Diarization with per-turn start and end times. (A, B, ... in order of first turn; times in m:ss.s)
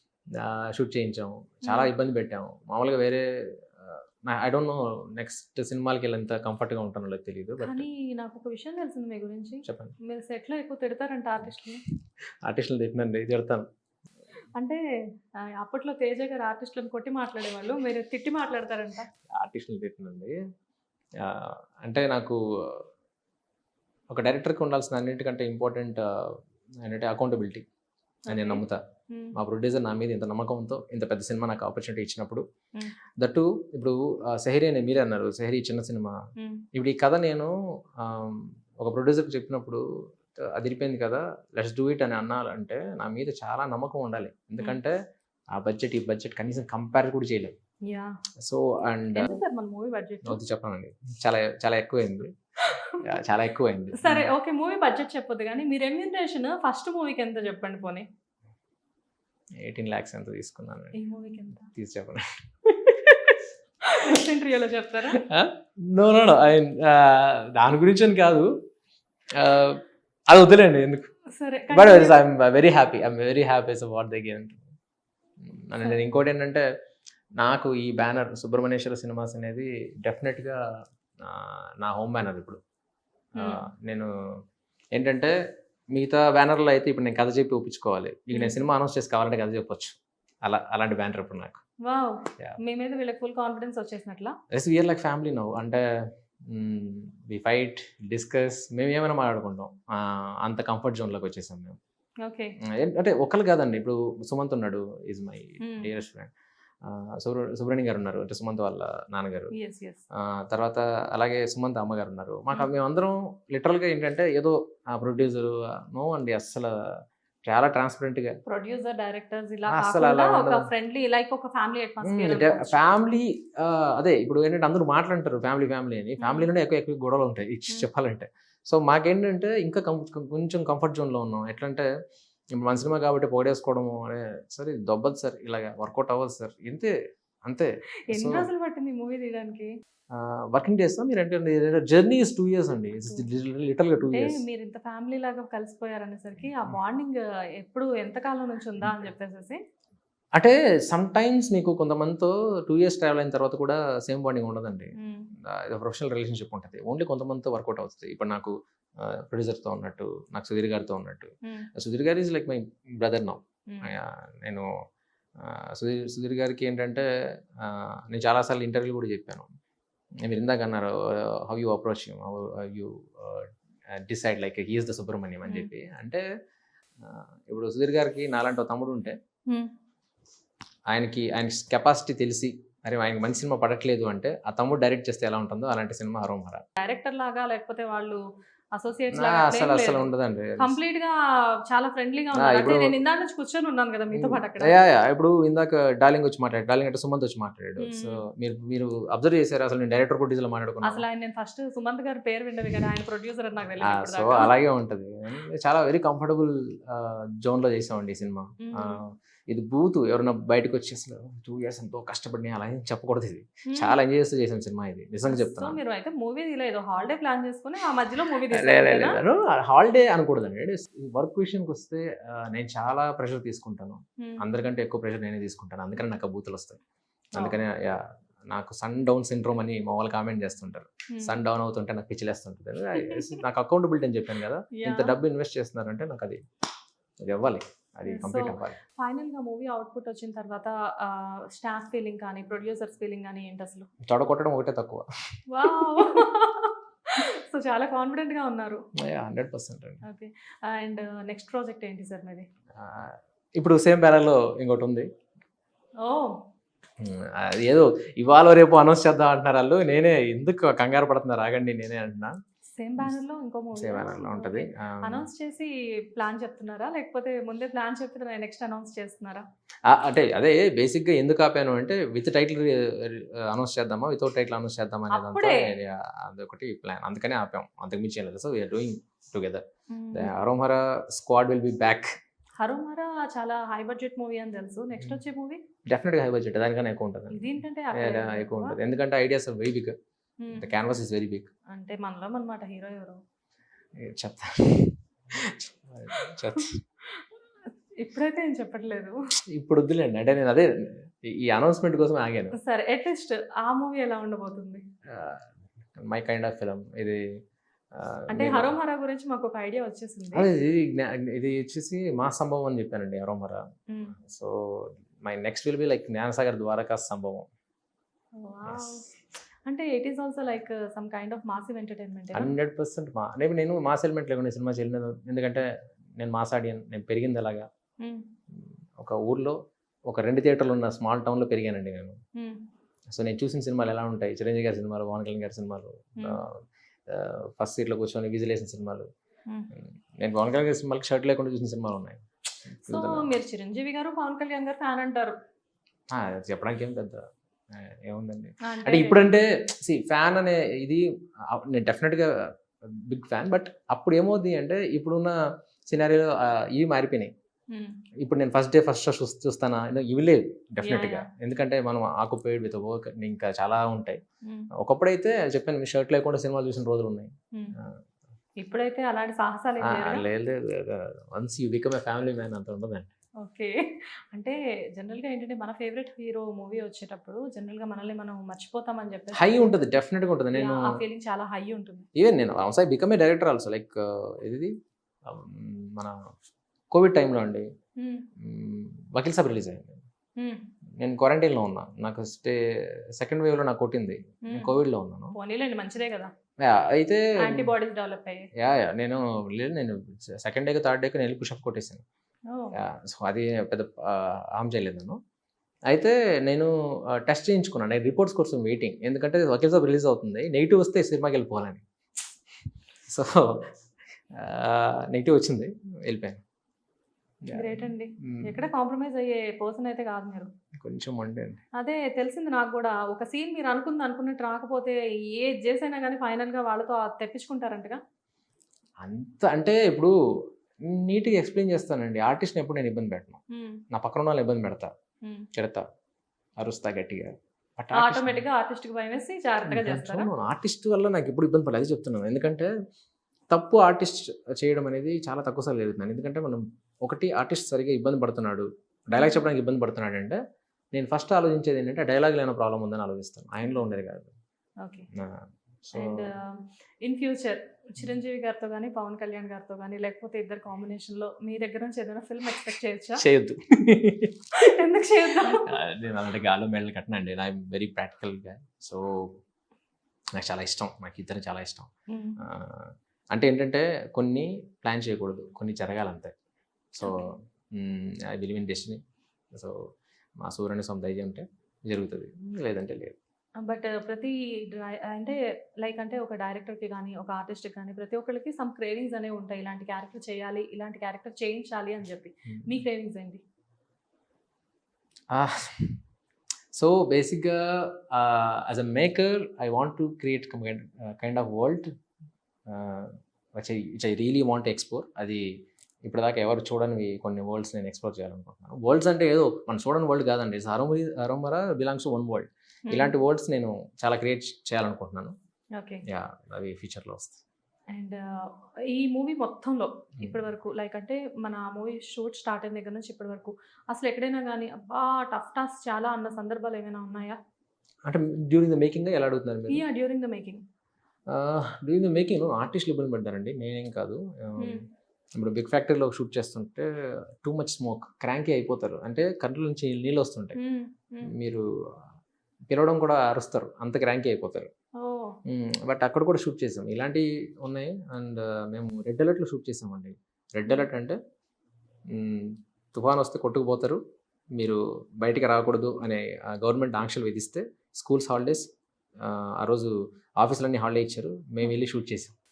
0:00.4-0:03.2 A
0:01.7-0:01.9 B
0:03.8-0:07.9 A
0:07.6-0:11.8 B
0:09.6-0:09.9 A
0:12.4-0:13.7 A
0:14.5-0:14.8 B
0:15.4-0:19.1 B
0:19.4-0:20.3 A
0:21.2-0:22.8 A
0:24.1-0:26.0 A
0:26.8-0:27.6 A
0:28.3-0:28.8 A
0:28.3-0:29.4 B
0:29.3-0:32.4 A
0:33.2-0:36.2 A
0:36.4-0:36.6 B
0:36.7-0:39.8 A
0:40.4-0:44.9 A
0:45.5-0:47.5 A
0:47.9-0:48.2 B
0:48.4-0:49.4 A
0:49.1-0:50.4 B
0:50.2-0:52.3 A
0:52.6-0:53.0 B
0:53.0-0:54.3 A
0:53.9-0:58.1 B
0:59.6-1:01.0 A
1:00.9-1:01.7 B
1:01.7-1:03.3 A
1:03.9-1:05.2 B
1:05.2-1:08.5 A
1:09.4-1:11.1 A
1:11.3-1:12.2 B
1:11.7-1:14.6 A
1:15.4-1:16.6 A
1:17.4-1:20.6 A
1:21.2-1:22.6 A
1:23.4-1:23.6 B
1:23.4-1:24.1 A
1:24.9-1:25.3 A
1:25.9-1:31.6 A
1:28.3-1:28.6 B
1:31.8-1:34.4 B
1:34.5-1:35.8 A
1:36.5-1:41.8 A
1:42.2-1:42.6 B
1:42.7-1:46.3 A
1:45.6-1:45.9 B
1:46.8-1:49.5 A
1:49.5-1:50.0 B
1:50.2-1:56.7 A
1:57.4-1:58.3 A
1:58.4-2:02.8 B
1:59.7-2:00.7 A
2:02.0-2:11.9 A
2:06.2-2:06.5 B
2:12.5-2:16.9 A
2:17.4-2:18.5 A
2:18.1-2:19.7 B
2:20.1-2:24.4 A
2:23.0-2:23.2 B
2:24.1-2:29.6 B
2:30.4-2:44.7 A
2:35.0-2:35.3 B
2:41.4-2:41.7 B
2:45.4-2:47.0 A
2:47.6-2:49.5 A
2:50.2-2:56.2 A
2:57.0-2:59.1 A
3:00.9-3:06.6 A
3:06.8-3:08.2 B
3:08.7-3:10.1 B
3:09.1-3:10.7 A
3:10.6-3:11.1 B
3:11.7-3:14.8 B
3:12.3-3:12.9 A
3:14.1-3:21.0 A
3:17.8-3:18.2 B
3:20.8-3:24.6 B
3:23.8-3:35.8 A
3:28.6-3:29.0 B
3:33.7-3:34.0 B
3:35.3-3:39.2 B
3:38.5-3:46.8 A
3:47.4-3:56.4 A
3:53.0-3:53.4 B
3:54.7-3:55.1 B
3:57.2-3:58.8 A
3:58.0-4:03.9 B
4:04.0-4:05.0 A
4:05.5-4:08.8 B
4:05.7-4:06.2 A
4:09.0-4:10.0 A
4:10.0-4:12.4 B
4:12.8-4:15.1 A
4:16.0-4:16.4 B
4:17.0-4:22.4 A
4:22.7-4:29.4 B
4:23.7-4:25.3 A
4:29.9-4:39.6 A
4:35.1-4:35.6 B
4:39.9-4:40.3 B
4:40.1-4:42.1 A
4:42.6-4:45.6 B
4:45.8-4:49.9 A
4:47.3-4:48.8 B
4:50.4-4:50.7 B
4:50.5-4:51.5 A
4:51.7-4:53.2 B
4:54.0-4:56.8 A
4:56.6-4:57.3 B
4:58.0-4:59.2 B
4:59.5-5:02.6 A
5:02.6-5:04.8 B
5:05.1-5:07.2 A
5:07.9-5:08.7 A
5:08.3-5:10.5 B
5:10.3-5:13.6 A
5:14.2-5:17.4 A
5:18.4-5:19.1 B
5:18.6-5:19.0 A
5:19.6-5:22.5 B
5:22.3-5:25.6 A
5:26.2-5:27.6 A
5:28.0-5:28.3 B
5:29.0-5:29.6 A
5:30.1-5:32.2 A
5:32.3-5:32.6 B
5:33.1-5:39.1 A
5:39.7-5:43.3 A
5:42.9-5:45.4 B
5:46.1-5:52.5 A
5:48.6-5:49.2 B
5:53.1-5:55.3 A
5:55.9-5:57.3 A
5:57.7-5:58.0 B
5:58.2-6:04.2 A
6:00.8-6:01.2 B
6:04.8-6:07.9 A
6:08.6-6:10.2 B
6:09.8-6:13.1 A
6:13.4-6:19.5 B
6:19.3-6:21.0 A
6:20.5-6:22.1 B
6:22.2-6:24.7 A
6:25.2-6:26.2 A
6:26.9-6:27.6 A
6:28.0-6:28.2 B
6:28.4-6:30.0 A
6:30.4-6:30.7 B
6:31.0-6:32.6 A
6:33.1-6:35.3 A
6:34.4-6:34.8 B
6:35.3-6:36.3 B
6:36.6-6:37.7 A
6:37.4-6:38.5 B
6:38.6-6:42.0 A
6:42.5-6:42.7 B
6:42.8-6:45.2 A
6:45.9-6:51.8 A
6:53.1-6:53.7 A
6:54.3-6:56.4 A
6:57.4-6:58.7 A
6:57.5-7:00.5 B
7:00.8-7:01.6 A
7:01.8-7:08.0 B
7:09.0-7:10.1 A
7:10.8-7:13.4 A
7:13.5-7:13.8 B
7:13.9-7:14.9 A
7:15.2-7:15.5 B
7:15.5-7:15.8 A
7:16.6-7:18.4 A
7:17.9-7:20.3 B
7:19.7-7:22.7 A
7:23.5-7:30.4 A
7:29.1-7:29.4 B
7:30.9-7:34.3 A
7:34.8-7:35.1 B
7:35.1-7:36.2 A
7:35.9-7:43.2 B
7:43.2-7:44.4 A
7:44.5-7:45.7 B
7:45.4-7:49.3 A
7:50.4-7:56.3 A
7:52.1-7:52.4 B
7:56.9-7:59.0 A
7:57.0-7:57.3 B
7:59.5-7:59.8 A
8:00.4-8:03.2 A
8:03.6-8:13.4 B
8:15.3-8:16.0 A
8:16.7-8:21.9 A
8:22.7-8:25.4 A
8:26.0-8:35.3 A
8:32.9-8:33.1 B
8:35.8-8:36.0 B
8:36.1-8:37.4 A
8:37.9-8:47.4 B
8:48.0-8:49.8 A
8:49.7-8:50.6 B
8:51.3-8:54.8 A
8:54.6-8:54.8 B
8:55.4-8:56.8 A
8:57.4-9:00.6 A
9:00.6-9:01.3 B
9:01.3-9:01.6 A
9:02.7-9:04.7 A
9:05.0-9:05.4 B
9:05.4-9:11.2 A
9:12.1-9:14.0 A
9:14.6-9:18.7 A
9:19.2-9:22.3 A